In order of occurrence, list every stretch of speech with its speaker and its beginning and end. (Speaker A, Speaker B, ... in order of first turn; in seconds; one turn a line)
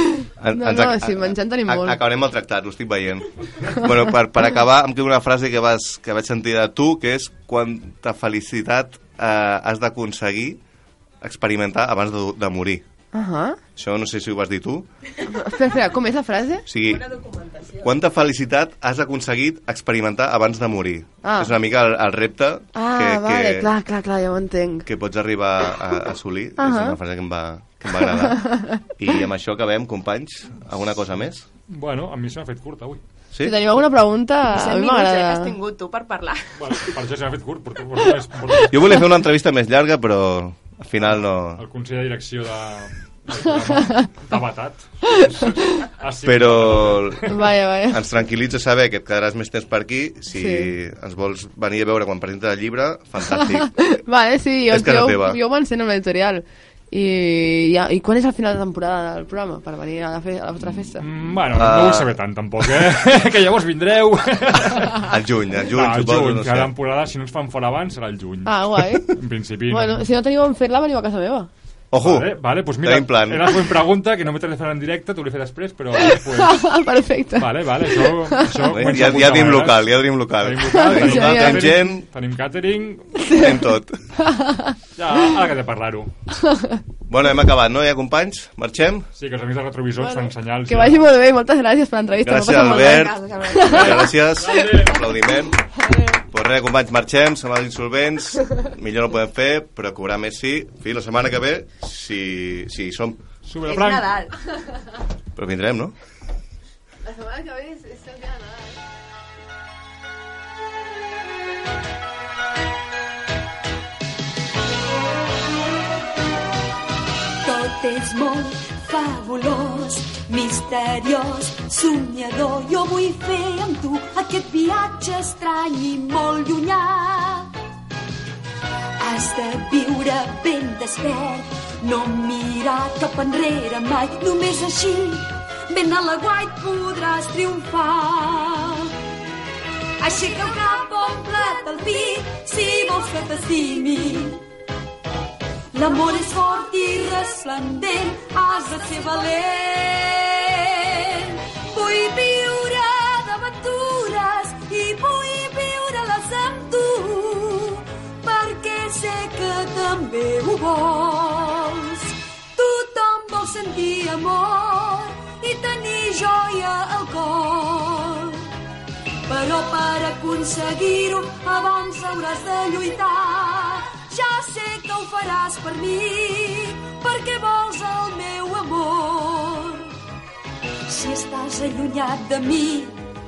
Speaker A: 0.2-2.0
Speaker B: 0.4-10.6
Speaker B: 11.2-12.8
Speaker A: 13.1-13.6
Speaker B: 13.8-14.9
Speaker A: 15.3-16.7
Speaker B: 16.7-17.1
Speaker C: 16.8-17.9
Speaker B: 17.8-23.7
Speaker A: 21.2-21.5
Speaker A: 22.8-24.9
Speaker B: 24.9-31.4
Speaker A: 26.6-27.0
Speaker A: 28.0-28.8
Speaker D: 31.7-33.0
Speaker B: 33.3-33.6
Speaker A: 33.4-35.5
Speaker C: 34.5-36.5
Speaker D: 36.6-38.8
Speaker B: 38.7-41.6
Speaker D: 41.6-47.3
Speaker B: 46.2-53.7
Speaker A: 47.3-48.1
Speaker A: 50.3-50.7
Speaker A: 53.3-61.0
Speaker B: 54.7-55.4
Speaker D: 61.0-65.1
Speaker B: 61.5-62.2
Speaker B: 64.9-66.7
Speaker D: 65.7-70.1
Speaker A: 68.5-69.2
Speaker A: 69.7-71.5
Speaker B: 71.9-73.5
Speaker D: 72.0-76.6
Speaker A: 76.4-78.7
Speaker D: 77.4-83.1
Speaker B: 78.7-82.0
Speaker A: 80.7-81.8
Speaker A: 83.2-84.7
Speaker B: 83.3-84.0
Speaker D: 85.0-86.1
Speaker B: 87.1-89.1
Speaker D: 89.2-91.1
Speaker A: 90.0-94.0
Speaker B: 92.2-95.6
Speaker C: 92.5-94.0
Speaker D: 93.7-95.1
Speaker C: 95.9-96.2
Speaker B: 96.3-103.2
Speaker D: 103.5-104.1
Speaker C: 103.6-104.3
Speaker B: 105.3-106.0
Speaker A: 107.0-108.8
Speaker E: 117.4-127.5
Speaker E: 129.0-138.9
Speaker E: 140.0-144.4
Speaker E: 145.7-168.4
Speaker E: 169.3-179.9
Speaker E: 180.9-183.0